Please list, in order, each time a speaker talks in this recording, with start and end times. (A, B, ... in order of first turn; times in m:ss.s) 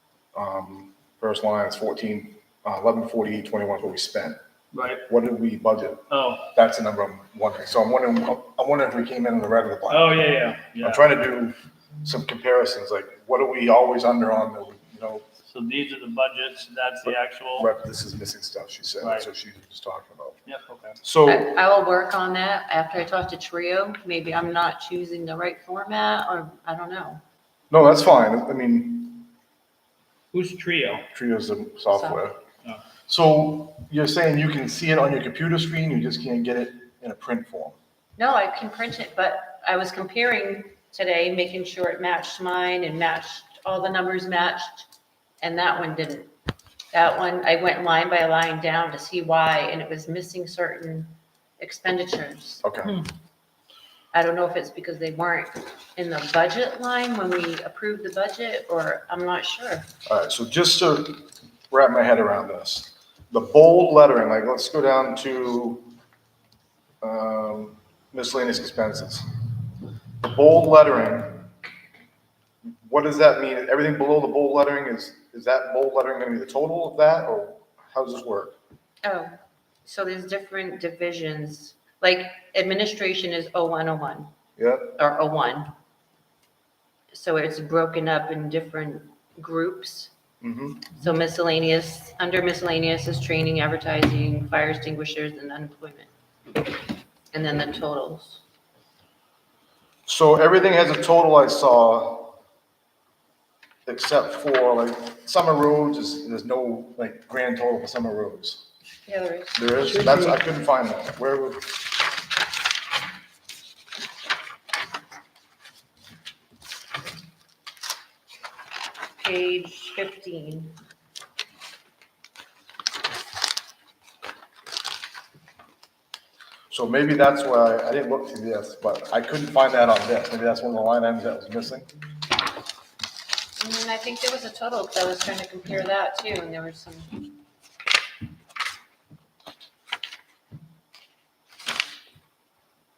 0:00.3-0:04.4 A
0:04.7-0:05.0 B
0:05.1-0:10.2 A
0:06.1-0:06.4 B
0:09.9-0:11.1 B
0:10.8-0:15.2 A
0:15.5-0:17.7 B
0:17.6-0:20.4 A
0:19.0-0:19.3 B
0:20.4-0:21.0 B
0:21.0-0:21.5 A
0:21.2-0:27.2 C
0:27.7-0:29.3 A
0:30.3-0:31.1 B
0:31.1-0:32.4 A
0:31.9-0:32.2 C
0:33.1-0:37.8 A
0:38.2-0:44.8 C
0:45.4-0:46.3 C
0:46.9-0:52.6 C
0:52.6-0:53.0 A
0:54.1-0:59.9 C
1:00.1-1:05.9 A
1:07.0-1:09.2 A
1:10.2-1:11.5 A
1:12.8-1:18.6 A
1:19.0-1:24.3 C
1:24.6-1:24.9 A
1:25.0-1:25.7 C
1:27.1-1:30.1 C
1:30.4-1:30.9 A
1:30.9-1:36.1 C
1:37.3-1:38.4 C
1:40.0-1:42.4 A
1:43.8-1:48.6 A
1:49.0-1:49.6 C
1:49.6-1:51.7 A
1:59.2-2:00.8 C
2:06.7-2:11.9 A
2:13.6-2:17.3 C